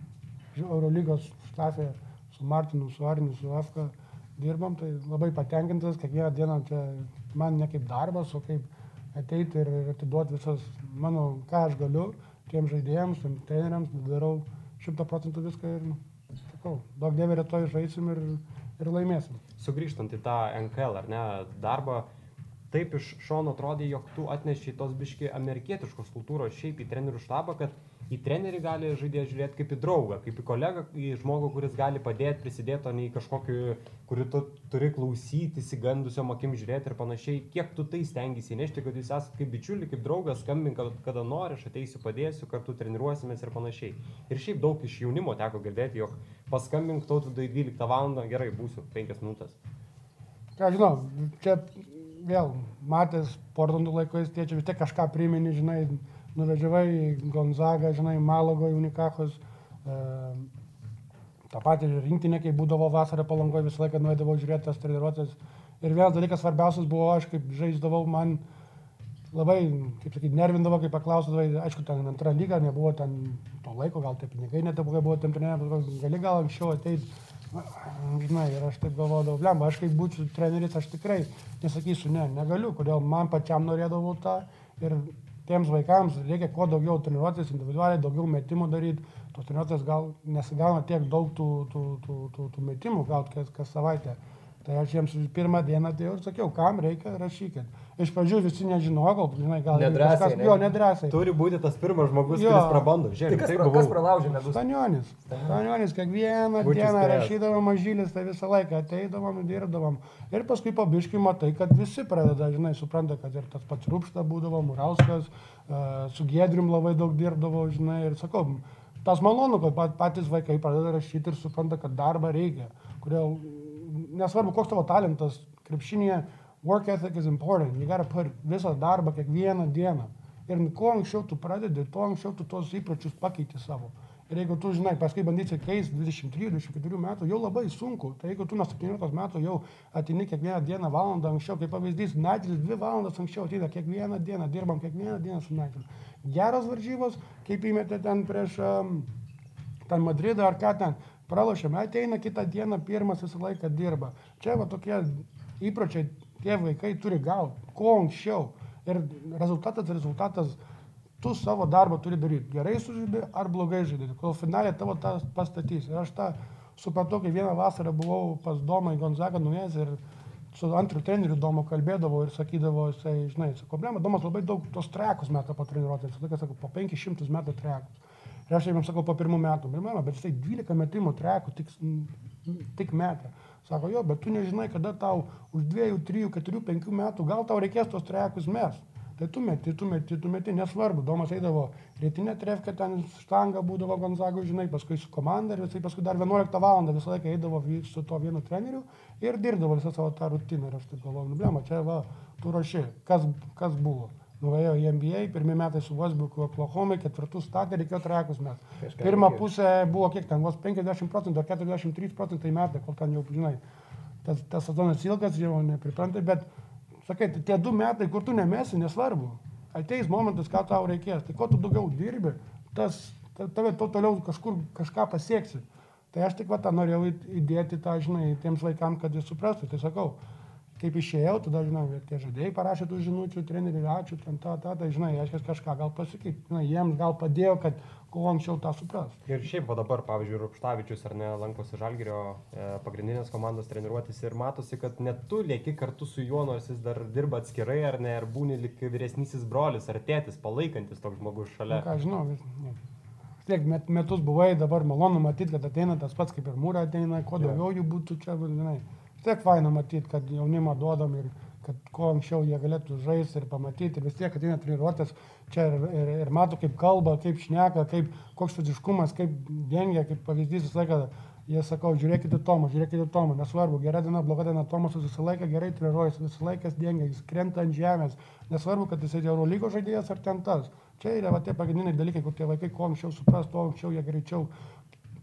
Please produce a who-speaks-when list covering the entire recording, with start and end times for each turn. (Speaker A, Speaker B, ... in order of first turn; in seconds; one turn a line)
Speaker A: 0.5-19.4
Speaker B: 19.6-22.1
Speaker B: 22.7-49.6
Speaker A: 50.6-60.5
Speaker A: 61.5-68.4
Speaker A: 69.3-101.2
Speaker C: 99.7-100.7
Speaker B: 101.1-104.0
Speaker A: 102.3-102.9
Speaker C: 103.3-104.6
Speaker A: 104.5-149.1
Speaker C: 105.3-105.6
Speaker B: 106.6-107.3
Speaker A: 149.9-160.6
Speaker A: 161.2-170.0
Speaker A: 170.5-178.0
Speaker A: 178.5-213.6
Speaker C: 208.8-209.4
Speaker A: 214.2-216.5
Speaker A: 217.1-230.2
Speaker A: 230.8-239.2
Speaker B: 239.3-251.9
Speaker A: 251.7-252.8
Speaker A: 253.5-284.5